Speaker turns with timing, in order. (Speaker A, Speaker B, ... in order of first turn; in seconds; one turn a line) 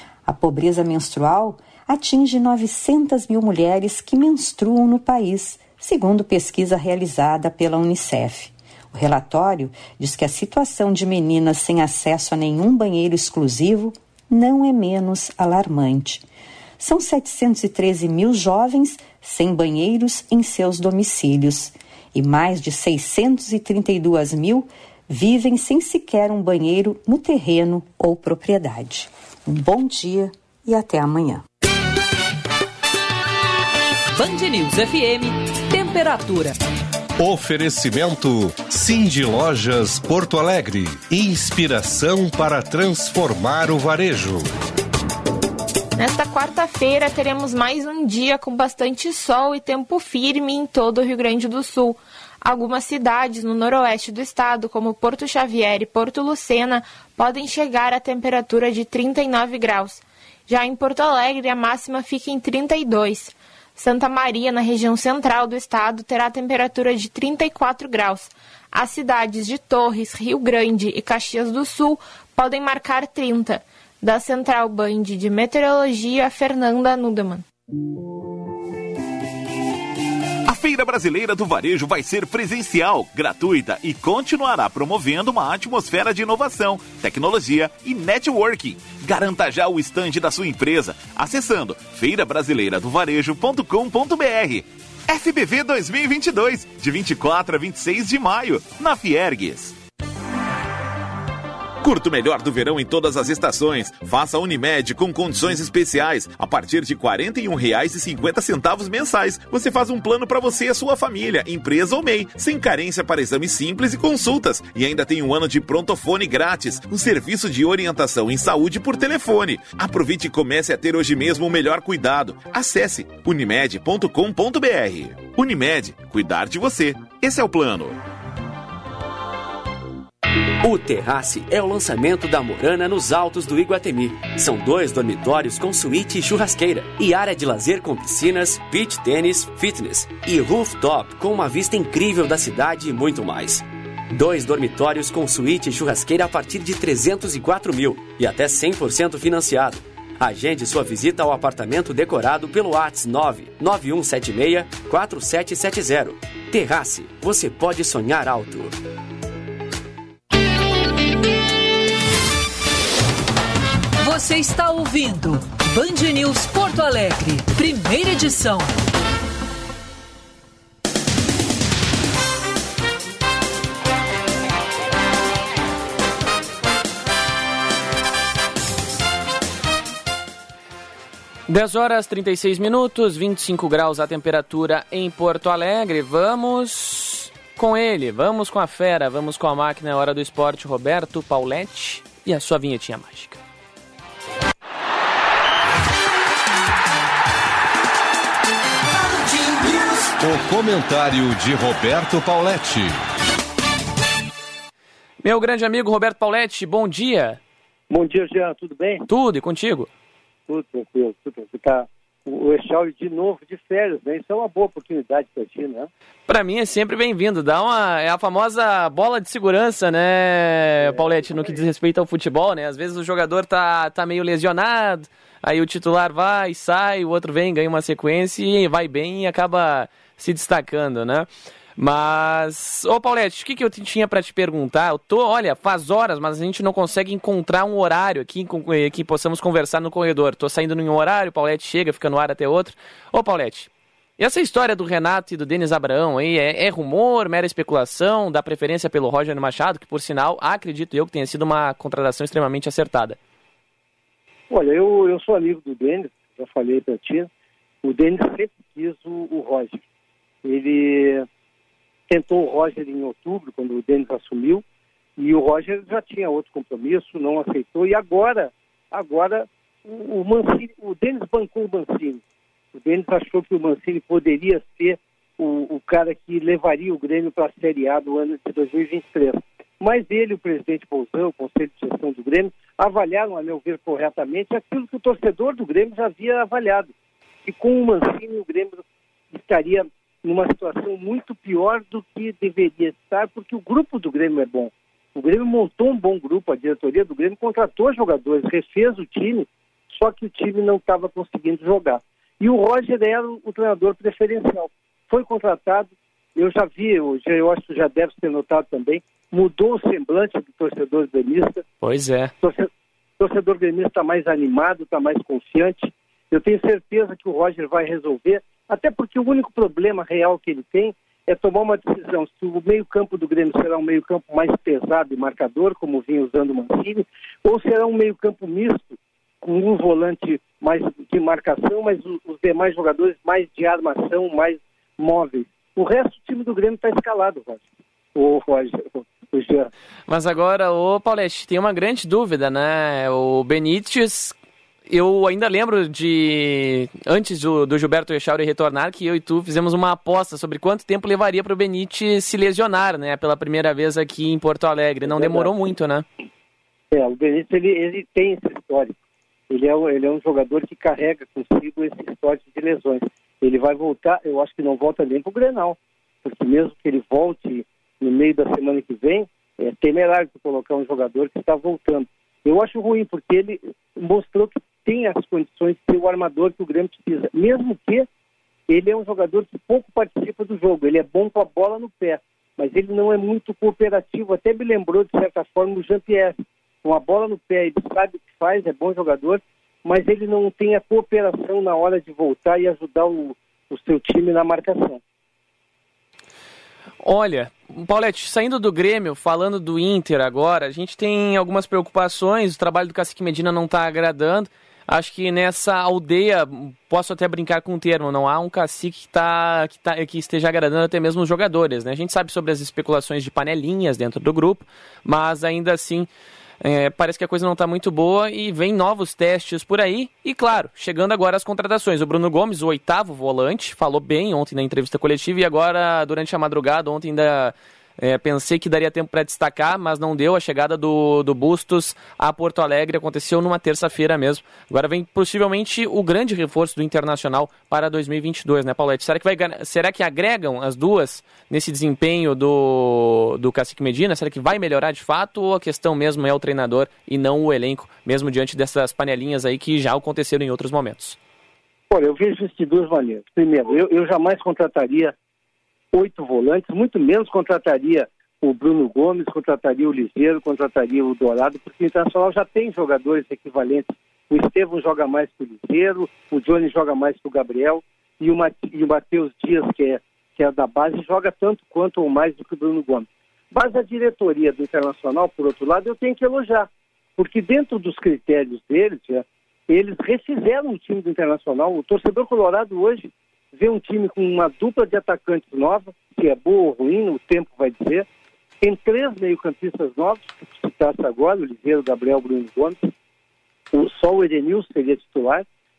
Speaker A: 0.2-16.2
Speaker A: 16.8-31.4
Speaker B: 34.1-36.6
Speaker C: 37.2-44.5
Speaker D: 46.0-77.4
Speaker E: 80.4-99.8
Speaker E: 101.8-128.0
Speaker F: 130.6-158.8
Speaker B: 164.0-168.8
Speaker G: 181.5-193.4
Speaker C: 200.2-203.0
Speaker G: 205.2-207.4
Speaker H: 207.9-209.1
Speaker G: 209.1-209.9
Speaker H: 210.5-215.9
Speaker G: 216.3-253.2
Speaker H: 254.5-257.3
Speaker H: 257.8-259.8
Speaker H: 260.4-261.3
Speaker H: 262.1-264.6
Speaker H: 265.2-272.2
Speaker H: 272.7-286.9
Speaker H: 287.4-311.6
Speaker G: 311.8-312.3
Speaker H: 312.4-339.7
Speaker G: 340.1-344.3
Speaker G: 344.9-356.1
Speaker H: 355.1-355.6
Speaker H: 356.9-358.9
Speaker H: 359.5-378.1
Speaker H: 378.7-395.0
Speaker G: 397.0-416.1
Speaker G: 416.6-451.2
Speaker H: 451.9-455.1
Speaker H: 455.9-488.1
Speaker H: 488.6-492.9
Speaker H: 493.7-495.4